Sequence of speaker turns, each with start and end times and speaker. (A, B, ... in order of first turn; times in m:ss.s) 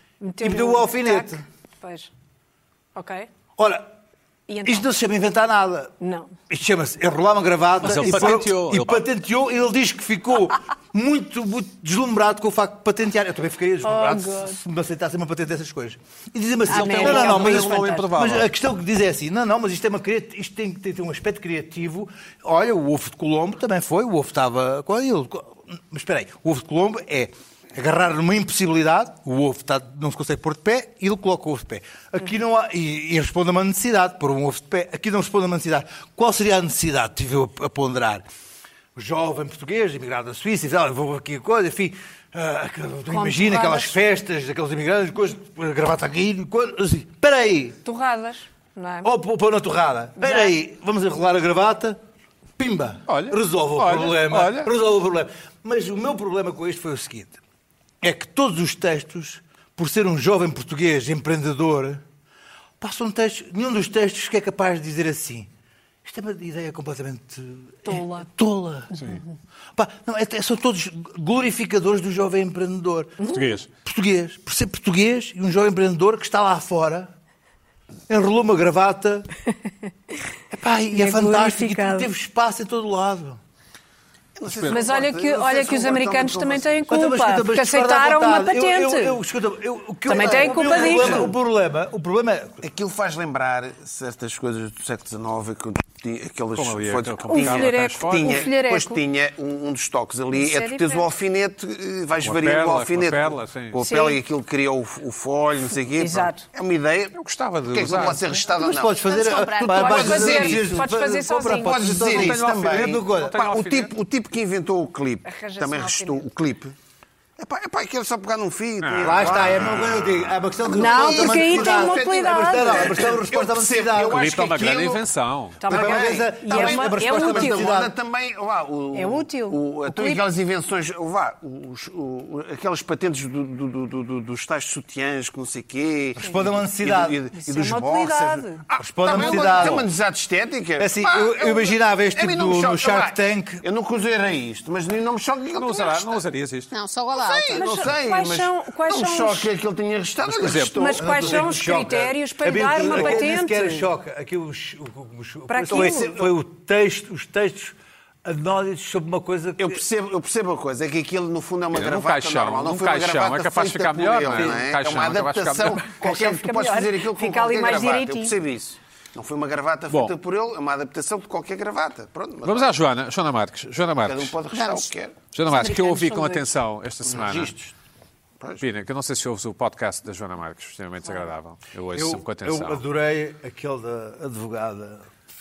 0:00.2-0:02.1 A
0:00.4-0:01.4 B
0:03.0-0:03.3 A
0:03.6-0:03.9 B
0:04.5-0:04.9 A
0:04.6-0:05.9 B
0:06.0-0:06.3 A
0:06.5-0:38.3 B
0:07.8-0:09.1 C
0:13.8-0:14.6 A
0:16.7-0:18.1 A
0:16.7-0:18.5 C
0:39.0-0:47.8 B
0:43.1-0:44.0 A
0:47.8-0:49.1 A
0:49.0-0:52.0 B
0:50.2-0:50.5 A
0:52.6-0:57.4 B
0:53.1-0:54.7 C
0:58.0-1:02.0 B
1:02.8-1:05.5 B
1:06.0-1:09.0 B
1:07.9-1:08.3 A
1:09.8-1:13.3 B
1:13.2-1:13.7 C
1:13.8-1:17.1 B
1:18.1-1:19.3 B
1:20.5-1:23.4 B
1:20.9-1:22.1 A
1:24.4-1:26.9 D
1:24.5-1:24.9 C
1:24.7-1:29.2 A
1:26.9-1:32.7 B
1:30.1-1:31.3 A
1:30.9-1:31.3 C
1:32.6-1:47.2 D
1:36.6-1:38.5 C
1:37.3-1:39.0 A
1:40.3-1:41.1 A
1:42.2-1:43.9 C
1:43.8-1:44.2 A
1:46.0-1:46.4 A
1:47.2-1:48.4 C
1:47.7-1:56.7 D
1:48.6-1:53.4 B
1:48.9-1:50.1 E
1:49.7-1:51.8 A
1:52.0-1:53.9 C
1:55.2-1:56.3 A
1:57.4-2:00.0 D
1:58.8-2:00.0 C
1:59.0-2:04.6 B
2:00.7-2:05.0 D
2:00.7-2:03.1 A
2:04.1-2:05.6 C
2:05.6-2:07.7 A
2:05.7-2:26.2 D
2:05.7-2:07.9 B
2:08.9-2:10.2 A
2:16.2-2:17.2 B
2:17.3-2:19.8 A
2:18.8-2:19.9 B
2:20.8-2:23.6 B
2:25.6-2:26.7 C
2:26.7-2:27.7 E
2:27.1-2:32.1 D
2:27.5-2:29.5 A
2:30.2-2:30.8 C
2:30.8-2:33.9 A
2:31.0-2:39.8 B
2:32.8-2:33.2 D
2:35.5-2:36.3 A
2:35.7-2:36.3 D
2:39.6-2:52.7 D
2:41.7-2:45.9 C
2:44.3-2:44.6 B
2:46.0-2:48.4 A
2:49.9-2:50.2 C
2:52.4-2:54.4 C
2:54.0-2:55.2 D
2:54.5-2:54.9 E
2:55.3-2:57.5 C
2:55.5-2:56.5 E
2:57.1-2:57.7 D
2:58.6-3:02.8 C
3:01.9-3:05.1 B